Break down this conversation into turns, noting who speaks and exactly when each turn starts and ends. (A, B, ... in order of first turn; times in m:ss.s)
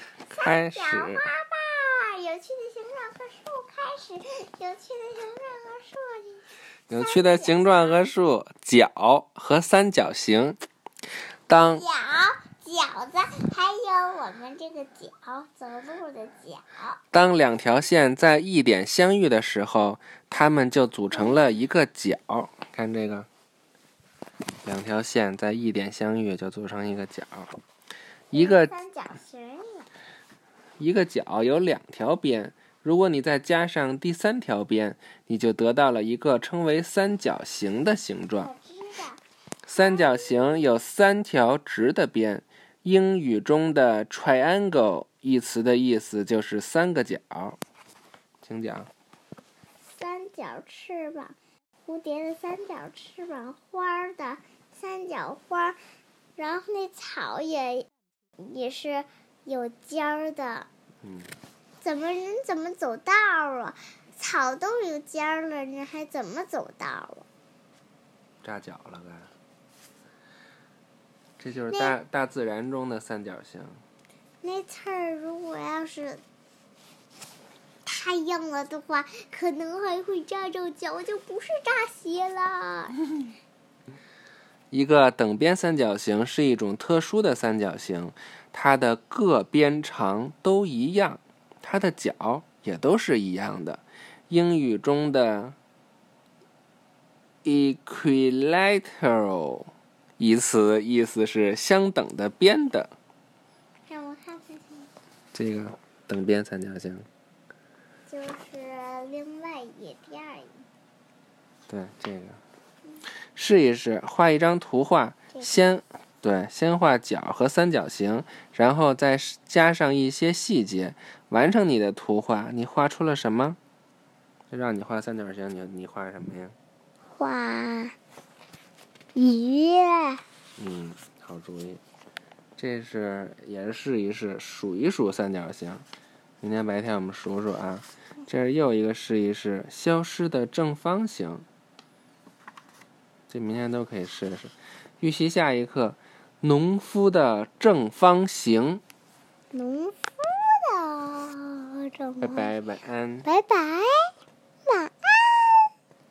0:00.3-0:01.2 A
0:00.3-0:08.0 B
0:06.9-0:10.6 A
0:11.5-0:11.8 A
0:11.7-0:17.0 B
0:17.1-0:23.3 A
0:24.6-0:27.6 A
0:28.3-0:28.7 A
0:28.3-0:29.9 B
0:30.8-0:38.5 A
0:38.4-0:39.2 B
0:39.6-0:47.6 A
0:39.8-0:40.4 B
0:48.4-0:48.9 A
0:49.9-0:51.4 B
0:51.9-0:55.8 B
0:56.4-0:57.9 B
0:58.4-1:00.7 B
1:01.0-1:01.3 A
1:01.8-1:07.2 B
1:08.4-1:09.3 A
1:11.4-1:13.8 A
1:11.7-1:11.9 B
1:14.4-1:16.2 B
1:17.8-1:23.0 B
1:24.7-1:35.6 A
1:37.4-1:42.9 A
1:43.9-1:44.9 B
1:45.3-1:47.0 A
1:48.1-1:50.6 B
1:51.7-1:52.4 A
1:53.3-2:03.6 A
2:04.5-2:06.6 A
2:07.1-2:07.9 B
2:09.1-2:10.2 B
2:10.6-2:11.8 A
2:12.6-2:15.8 A
2:16.4-2:21.4 A
2:23.3-2:28.8 A
2:29.5-2:32.5 B
2:32.2-2:33.3 A
2:33.2-2:34.1 B
2:34.7-2:35.5 B